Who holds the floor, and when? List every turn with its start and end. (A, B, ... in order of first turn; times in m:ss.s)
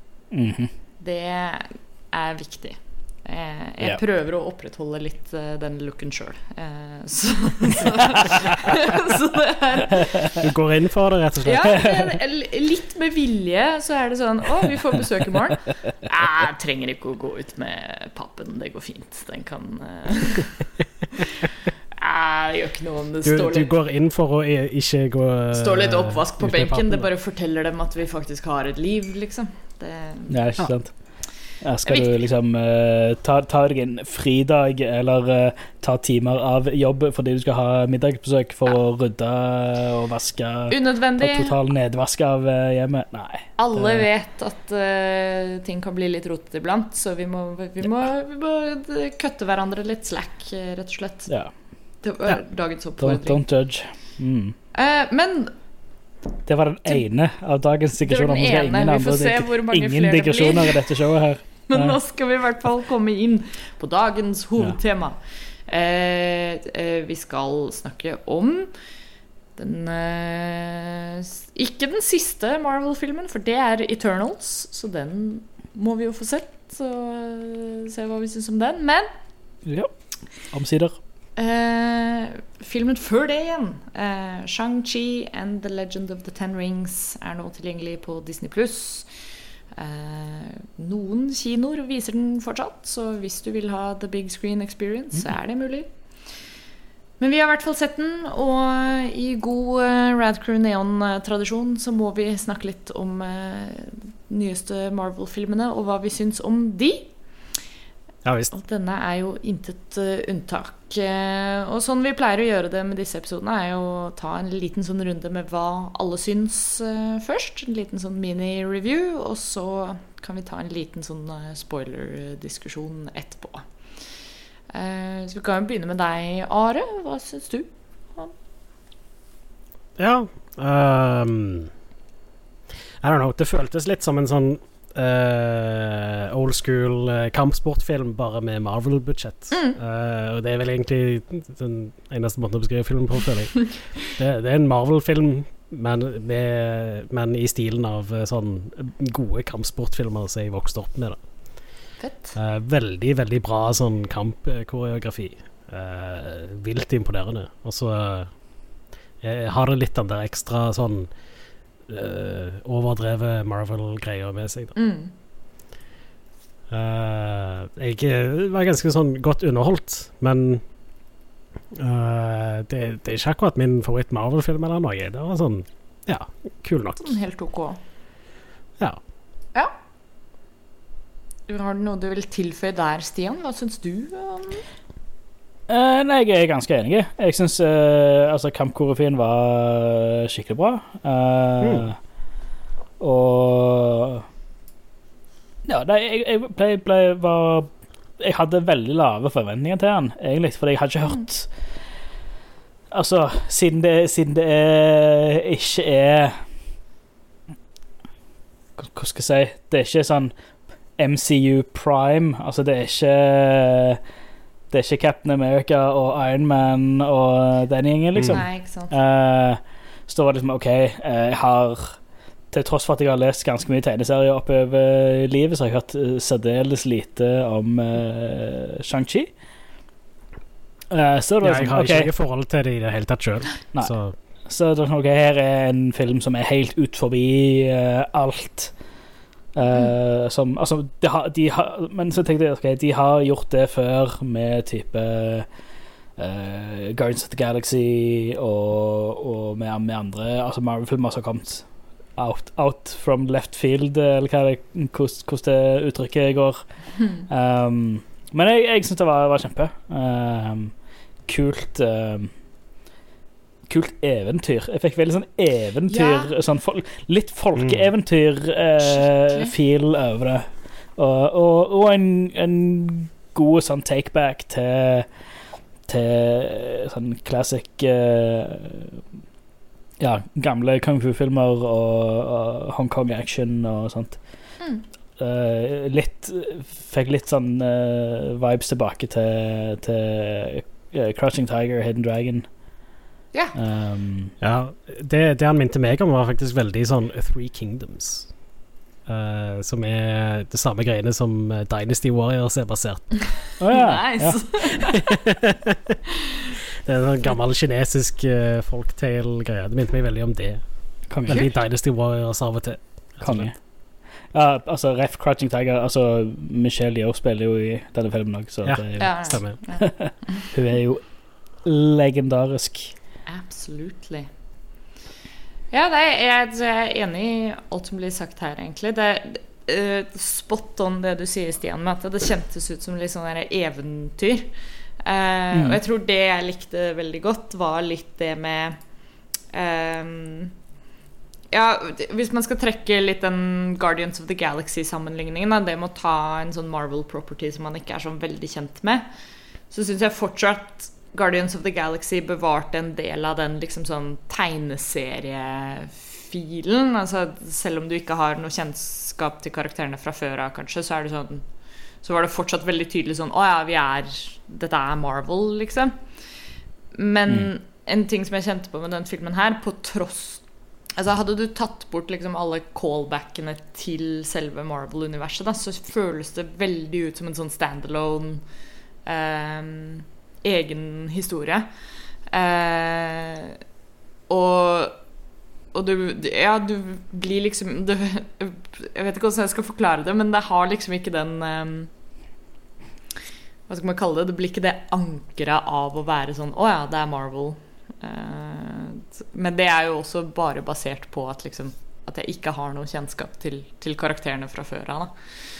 0:00.3-0:00.7 A
0:01.0-0:10.4 B
0:10.4-0:12.0 C
0:11.4-0:23.7 B
0:23.2-0:27.0 C
0:25.5-0:30.4 B
0:30.3-0:44.1 A
0:31.8-0:32.2 B
0:40.7-0:41.5 B
0:43.6-0:51.3 B
0:52.0-0:53.4 B
0:53.0-0:54.5 A
0:54.7-0:55.5 B
0:56.4-1:02.0 A
0:58.0-1:01.0 B
1:01.6-1:08.7 B
1:09.6-1:19.1 B
1:19.6-1:19.9 A
1:20.5-1:21.0 A
1:21.4-1:29.1 B
1:29.7-1:35.9 B
1:37.2-1:47.1 B
1:48.2-1:48.5 C
1:48.5-2:03.6 B
2:04.7-2:08.3 B
2:10.0-2:11.7 C
2:13.0-2:31.7 C
2:19.5-2:19.8 B
2:32.0-2:32.4 B
2:32.3-2:38.3 C
2:39.2-2:41.1 C
2:41.9-2:44.8 C
2:44.7-2:45.1 B
2:46.7-2:50.6 C
2:51.7-2:57.2 C
2:57.0-2:57.8 B
3:01.5-3:04.6 B
3:05.7-3:12.0 A
3:13.0-3:14.2 A
3:15.6-3:21.5 A
3:22.9-3:26.4 A
3:28.8-3:30.3 A
3:31.0-3:34.0 A
3:34.7-3:42.0 A
3:38.2-3:38.4 C
3:38.2-3:38.9 B
3:42.5-3:49.3 A
3:50.9-3:52.1 A
3:51.4-3:54.1 C
3:54.4-3:58.7 A
3:59.5-4:05.5 A
4:06.2-4:20.7 A
4:21.3-4:22.3 A
4:23.7-4:35.1 A
4:25.9-4:26.3 B
4:27.6-4:27.9 C
4:28.8-4:29.5 B
4:35.9-4:39.0 A
4:40.0-4:44.2 A
4:45.2-4:52.5 A
4:53.5-4:54.3 A
4:54.4-4:58.3 C
4:59.1-5:03.3 C
5:03.6-5:04.8 A
5:03.7-5:05.2 B
5:05.3-5:05.7 C
5:06.8-5:13.5 C
5:11.1-5:11.5 A
5:13.2-5:13.6 A
5:14.3-5:22.9 A
5:18.6-5:19.6 C
5:19.0-5:20.5 B
5:23.3-5:24.3 B
5:25.7-5:34.5 B
5:35.0-5:38.8 B
5:35.5-5:35.8 A
5:39.5-5:40.5 B
5:41.5-5:49.1 B
5:49.7-6:01.4 B
6:02.0-6:06.0 B
6:06.9-6:10.4 B
6:11.0-6:18.4 B
6:19.0-6:21.7 B
6:22.3-6:23.6 B
6:24.3-6:25.0 B
6:25.7-6:31.9 B
6:33.7-6:45.1 B